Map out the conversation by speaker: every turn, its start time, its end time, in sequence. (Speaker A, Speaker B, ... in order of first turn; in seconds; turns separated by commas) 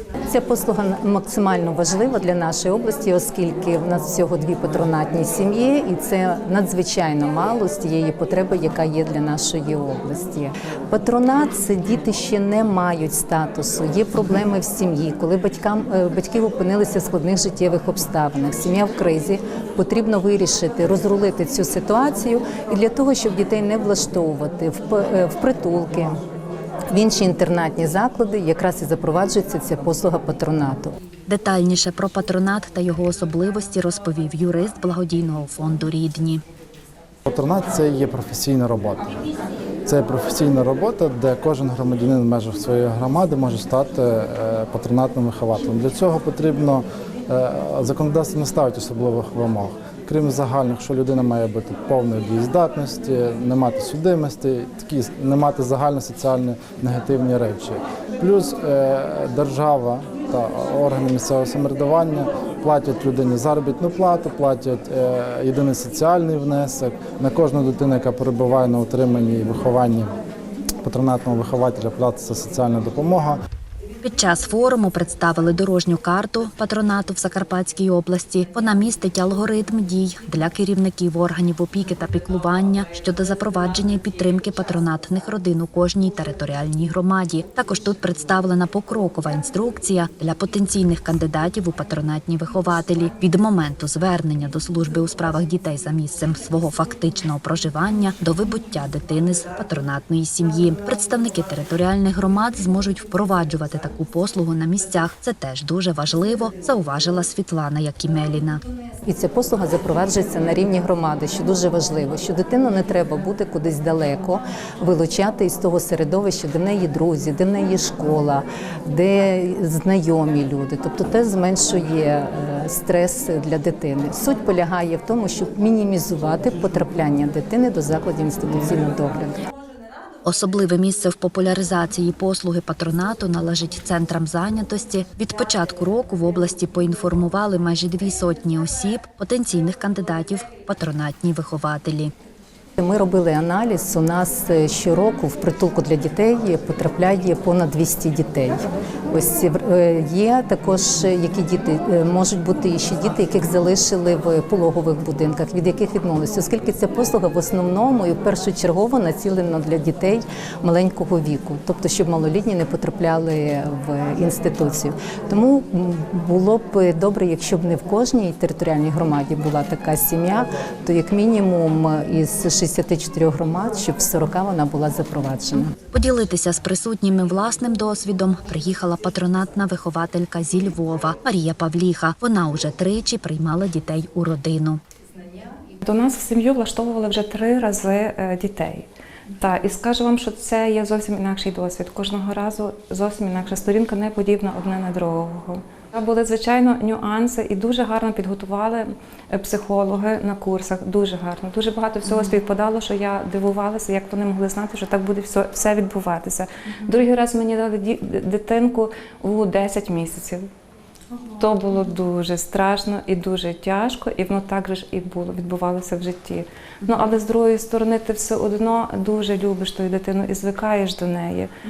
Speaker A: 0.3-26.2, Speaker A: 26.9-30.9, Speaker B: 31.3-36.4, Speaker C: 37.2-39.1, Speaker C: 39.9-70.1, Speaker C: 70.8-73.4, Speaker B: 74.0-108.6, Speaker A: 109.0-129.4, Speaker B: 130.2-142.1, Speaker A: 142.8-175.7, Speaker B: 175.9-184.8, Speaker D: 185.8-210.5, Speaker D: 211.3-221.5